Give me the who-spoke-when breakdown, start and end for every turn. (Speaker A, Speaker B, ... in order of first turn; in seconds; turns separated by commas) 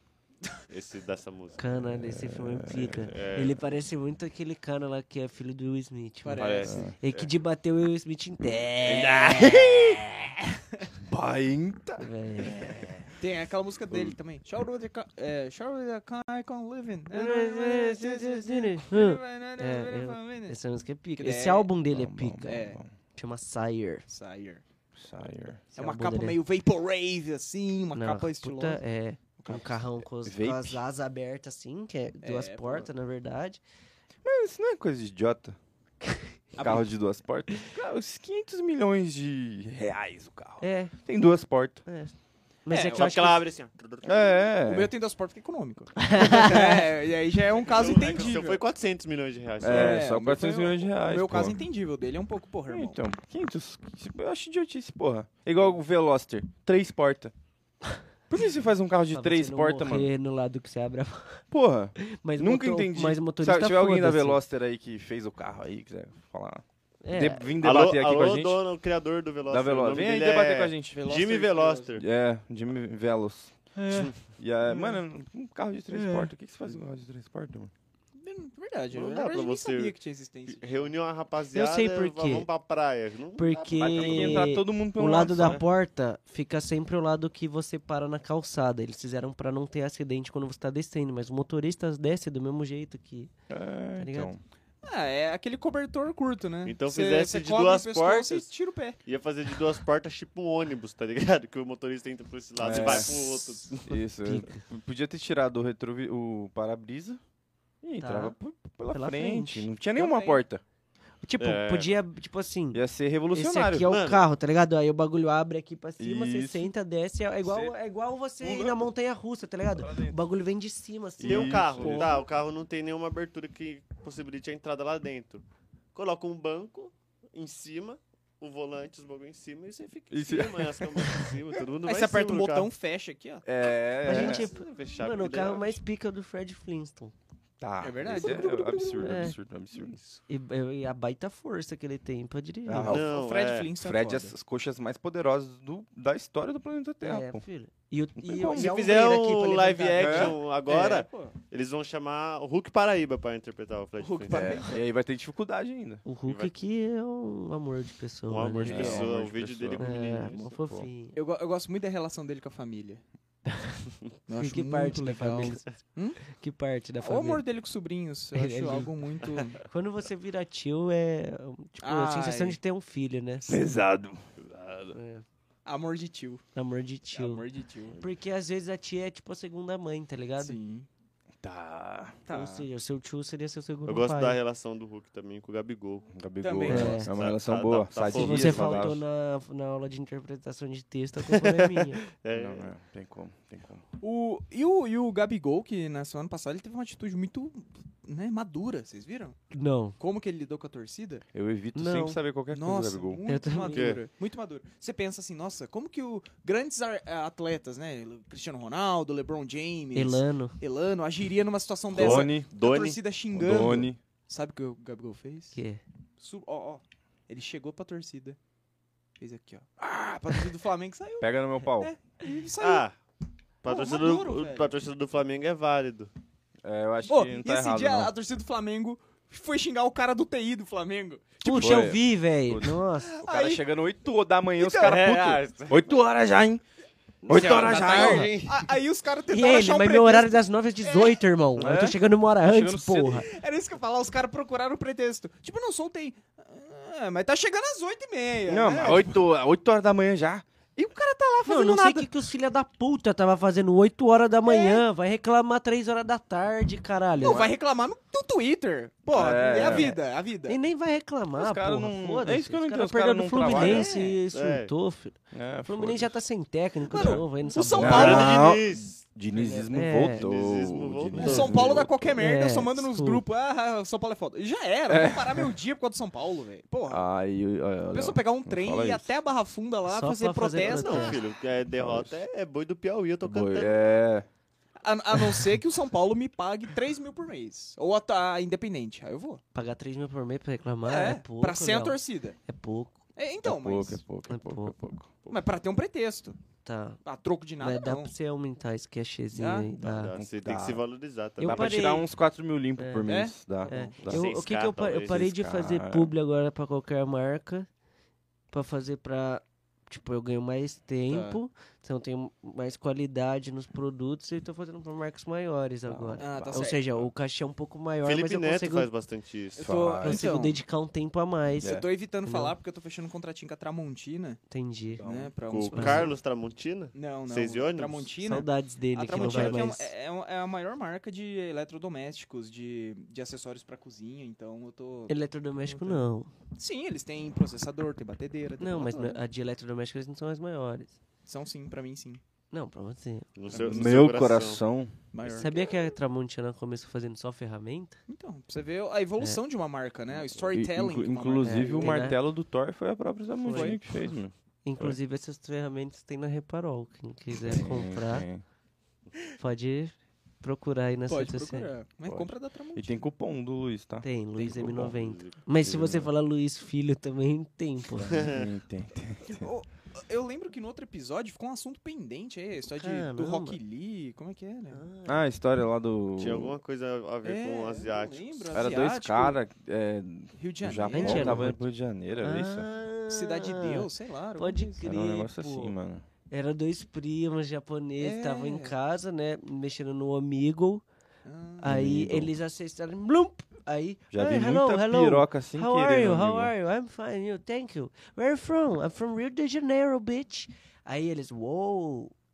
Speaker A: 0.7-1.6, Speaker B: 1.6-10.0, Speaker C: 1.8-3.3, Speaker A: 3.1-3.6, Speaker D: 6.2-6.8, Speaker A: 6.3-7.3, Speaker C: 6.7-6.9, Speaker C: 8.8-10.0, Speaker C: 11.1-13.1, Speaker B: 12.0-13.0, Speaker D: 13.2-20.6, Speaker C: 13.9-14.2, Speaker B: 17.1-22.6, Speaker D: 21.2-21.7, Speaker C: 21.9-22.9, Speaker D: 22.4-22.8, Speaker B: 23.1-24.1, Speaker D: 24.1-24.6, Speaker C: 25.0-25.6, Speaker B: 25.7-26.4, Speaker D: 25.8-28.8, Speaker B: 27.9-33.6, Speaker C: 30.3-30.8, Speaker D: 32.2-32.9, Speaker C: 34.2-35.6, Speaker D: 36.6-36.9, Speaker C: 36.6-41.8, Speaker B: 40.6-40.9, Speaker B: 41.9-43.4, Speaker D: 42.7-43.1, Speaker A: 42.9-44.5, Speaker C: 44.0-44.9, Speaker D: 44.6-48.6, Speaker B: 46.0-46.9, Speaker A: 47.5-50.3, Speaker C: 49.6-51.6, Speaker D: 49.6-53.0, Speaker C: 52.7-57.3, Speaker C: 58.3-60.1, Speaker B: 59.1-61.4, Speaker C: 61.5-68.6, Speaker B: 62.0-64.4, Speaker B: 67.0-67.5, Speaker A: 67.6-72.0, Speaker C: 69.5-71.0, Speaker D: 70.9-71.9, Speaker C: 72.0-73.6, Speaker D: 73.8-74.1, Speaker C: 74.4-77.7, Speaker D: 74.7-75.0, Speaker D: 75.9-76.3, Speaker D: 78.2-81.0, Speaker A: 78.9-84.5, Speaker B: 81.5-82.5, Speaker B: 83.4-93.3, Speaker C: 83.8-85.7, Speaker C: 93.5-94.4, Speaker B: 94.0-94.3, Speaker D: 94.8-99.0, Speaker A: 96.7-98.5, Speaker A: 99.0-104.0, Speaker C: 102.6-107.2, Speaker B: 104.2-104.6, Speaker C: 107.8-110.6, Speaker B: 108.0-108.4, Speaker B: 108.9-110.4, Speaker B: 111.2-121.8, Speaker A: 111.4-112.0, Speaker C: 112.7-113.9, Speaker A: 113.8-114.2, Speaker C: 116.0-116.7, Speaker C: 119.8-120.2, Speaker C: 121.2-122.1, Speaker A: 121.2-132.7, Speaker D: 121.8-122.2, Speaker C: 130.1-131.3, Speaker D: 131.8-133.4, Speaker C: 133.4-134.5, Speaker A: 134.0-135.8, Speaker B: 134.0-137.1, Speaker C: 137.6-140.0, Speaker D: 137.8-139.3, Speaker B: 139.0-139.4, Speaker B: 140.3-143.0, Speaker C: 142.7-143.1, Speaker A: 142.8-143.7, Speaker D: 142.9-144.3, Speaker C: 143.8-147.4, Speaker B: 147.0-150.4, Speaker C: 148.2-148.8, Speaker A: 148.4-154.7, Speaker C: 150.0-150.4, Speaker D: 150.7-151.3, Speaker D: 154.0-154.8, Speaker C: 154.2-156.0, Speaker B: 156.1-159.1, Speaker A: 156.2-156.5, Speaker A: 158.3-160.6, Speaker C: 158.6-159.9, Speaker B: 159.8-161.2, Speaker C: 160.6-160.9, Speaker D: 161.2-163.0, Speaker B: 163.5-163.8, Speaker D: 164.3-166.3, Speaker B: 164.3-165.7, Speaker B: 166.2-167.4, Speaker D: 167.0-169.6, Speaker B: 168.3-168.9, Speaker B: 169.7-173.6, Speaker D: 171.8-172.6, Speaker C: 173.5-174.2, Speaker A: 174.4-175.0, Speaker B: 174.9-175.2, Speaker D: 175.7-176.4, Speaker B: 176.6-177.4, Speaker D: 177.1-178.0, Speaker B: 178.0-180.6, Speaker D: 180.4-180.9, Speaker C: 181.4-182.5, Speaker D: 182.3-182.7, Speaker B: 182.3-184.4, Speaker A: 183.9-186.1, Speaker C: 186.1-189.0, Speaker D: 186.4-187.1, Speaker B: 186.7-187.1, Speaker A: 187.1-188.9, Speaker B: 188.0-192.0, Speaker A: 191.2-192.7, Speaker C: 192.3-193.8, Speaker D: 194.0-199.4, Speaker B: 199.5-200.0, Speaker D: 200.0-201.2, Speaker C: 201.3-203.2, Speaker B: 201.8-202.2, Speaker D: 202.5-215.6, Speaker B: 203.3-204.0, Speaker A: 203.7-204.0, Speaker B: 209.9-210.6, Speaker C: 211.9-212.5, Speaker A: 211.9-213.0, Speaker C: 213.3-214.0, Speaker A: 213.5-213.8, Speaker B: 215.5-215.8, Speaker D: 216.2-218.4, Speaker D: 219.2-222.9, Speaker C: 219.8-220.5, Speaker C: 221.2-221.9, Speaker A: 222.6-222.9, Speaker A: 223.6-226.1, Speaker D: 223.7-224.8, Speaker C: 226.6-228.1, Speaker D: 227.1-231.3, Speaker B: 231.4-233.2, Speaker C: 231.4-236.6, Speaker D: 233.0-233.7, Speaker D: 234.6-235.1, Speaker A: 234.8-235.9, Speaker A: 237.3-238.6, Speaker C: 237.3-238.3, Speaker D: 237.3-241.2, Speaker B: 237.9-238.3, Speaker B: 239.3-243.3, Speaker C: 241.6-243.3, Speaker D: 243.2-249.2, Speaker C: 248.5-252.1, Speaker B: 251.4-257.5, Speaker D: 254.5-254.8, Speaker D: 257.2-260.6, Speaker C: 257.2-257.5, Speaker C: 259.1-259.9, Speaker B: 259.6-268.3, Speaker C: 261.4-263.9, Speaker D: 263.5-264.2, Speaker A: 264.3-264.7, Speaker C: 265.3-266.1, Speaker D: 266.9-268.5, Speaker C: 266.9-272.2, Speaker A: 267.7-269.0, Speaker B: 269.4-270.2, Speaker A: 270.1-271.9, Speaker B: 271.1-271.4, Speaker D: 271.2-277.1, Speaker B: 272.2-273.2, Speaker C: 274.9-275.6, Speaker C: 276.9-279.2, Speaker D: 277.9-281.2, Speaker B: 279.9-281.2, Speaker A: 280.6-283.7, Speaker C: 281.7-282.2, Speaker C: 283.3-284.3, Speaker D: 284.8-289.4, Speaker C: 285.2-285.4, Speaker B: 289.5-293.0, Speaker D: 290.9-292.4, Speaker D: 293.2-294.0, Speaker C: 293.4-295.1, Speaker B: 294.3-294.8, Speaker D: 295.3-296.4, Speaker B: 296.6-297.0, Speaker D: 297.1-298.1, Speaker B: 297.6-300.1, Speaker D: 299.4-299.7, Speaker A: 299.8-301.9, Speaker C: 300.1-300.8, Speaker B: 301.4-302.1, Speaker C: 301.5-304.3, Speaker B: 302.8-303.1, Speaker D: 303.1-304.0, Speaker B: 303.7-307.7, Speaker A: 304.1-305.3, Speaker C: 305.0-306.1, Speaker B: 308.5-318.9, Speaker D: 311.1-311.4, Speaker C: 315.9-317.1, Speaker D: 316.2-316.8, Speaker A: 318.0-319.7, Speaker D: 319.6-320.6, Speaker C: 319.6-320.3, Speaker B: 320.0-322.6, Speaker C: 321.6-321.9, Speaker D: 321.6-324.4, Speaker B: 324.5-325.0, Speaker C: 325.0-325.3, Speaker D: 325.0-326.1, Speaker A: 325.4-328.1, Speaker B: 325.7-326.1, Speaker D: 326.9-335.1, Speaker B: 328.2-329.9, Speaker A: 329.1-329.6, Speaker B: 335.1-336.3, Speaker D: 335.7-336.0, Speaker D: 336.6-339.2, Speaker B: 338.6-340.9, Speaker D: 341.3-342.2, Speaker B: 342.5-343.3, Speaker A: 343.4-344.6, Speaker C: 343.6-344.9, Speaker D: 345.1-345.5, Speaker B: 345.4-348.0, Speaker D: 348.1-352.0, Speaker C: 350.4-355.0, Speaker B: 351.4-352.2, Speaker D: 353.4-354.1, Speaker B: 353.5-353.8, Speaker B: 354.6-358.3, Speaker C: 357.4-358.4, Speaker B: 359.4-361.7, Speaker D: 361.1-363.1, Speaker C: 362.1-365.0, Speaker B: 364.0-368.3, Speaker A: 364.6-365.4, Speaker C: 365.6-366.1, Speaker A: 368.0-368.5, Speaker C: 368.0-369.5, Speaker D: 369.3-374.8, Speaker B: 372.8-373.6, Speaker B: 374.7-375.2, Speaker C: 375.1-376.6, Speaker A: 376.2-378.7, Speaker D: 377.2-379.4, Speaker C: 378.5-382.7, Speaker D: 380.4-381.5, Speaker B: 380.9-381.6, Speaker B: 382.2-385.8, Speaker D: 383.1-384.8, Speaker C: 384.8-386.1, Speaker B: 386.3-390.8, Speaker D: 388.0-388.7, Speaker D: 391.2-391.8, Speaker C: 391.6-392.3, Speaker B: 391.6-402.1, Speaker C: 394.1-396.5